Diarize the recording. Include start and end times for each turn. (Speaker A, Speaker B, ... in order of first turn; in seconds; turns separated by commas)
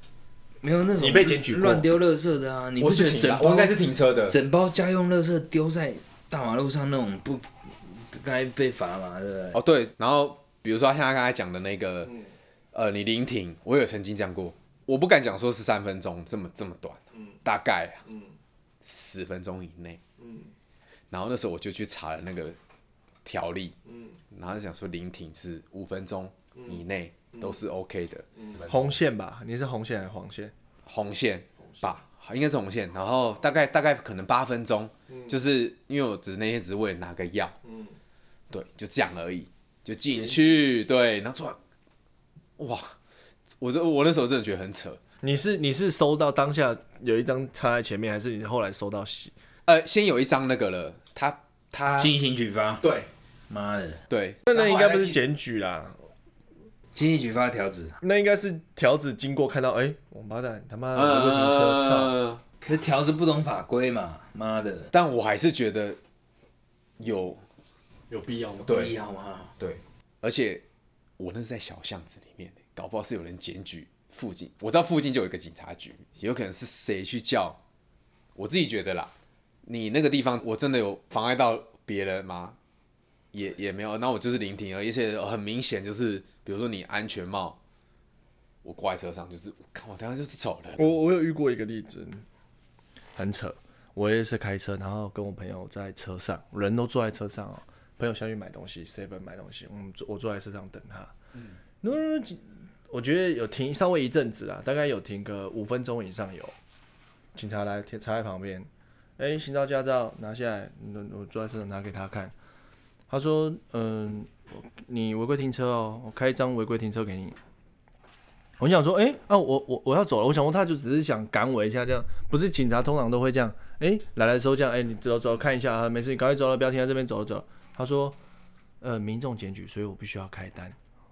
Speaker A: 0.6-9.6, Speaker B: 1.0-1.9, Speaker C: 2.8-4.3, Speaker C: 9.6-12.2, Speaker C: 12.7-18.1, Speaker C: 18.8-20.0, Speaker C: 21.1-22.6, Speaker C: 23.3-23.8, Speaker C: 24.3-28.3, Speaker B: 28.7-30.5, Speaker C: 30.9-37.5, Speaker C: 38.5-41.6, Speaker C: 42.6-42.9, Speaker C: 43.6-45.0, Speaker B: 45.2-49.3, Speaker C: 49.7-52.1, Speaker A: 52.0-52.9, Speaker C: 52.8-53.1, Speaker A: 53.5-54.0, Speaker C: 54.1-55.2, Speaker B: 54.5-56.0, Speaker A: 57.0-58.0, Speaker B: 58.0-62.1, Speaker C: 61.0-62.4, Speaker A: 62.6-64.9, Speaker C: 64.9-66.0, Speaker C: 67.0-67.4, Speaker B: 68.1-68.7, Speaker A: 68.7-69.5, Speaker C: 68.7-68.9, Speaker C: 69.6-70.6, Speaker C: 71.2-77.6, Speaker C: 78.4-79.1, Speaker C: 79.7-82.6, Speaker C: 83.3-87.6, Speaker C: 88.6-91.0, Speaker B: 90.8-92.2, Speaker B: 93.2-101.1, Speaker B: 101.8-106.5, Speaker B: 107.3-112.3, Speaker B: 113.1-117.4, Speaker B: 118.6-128.2, Speaker B: 128.8-130.8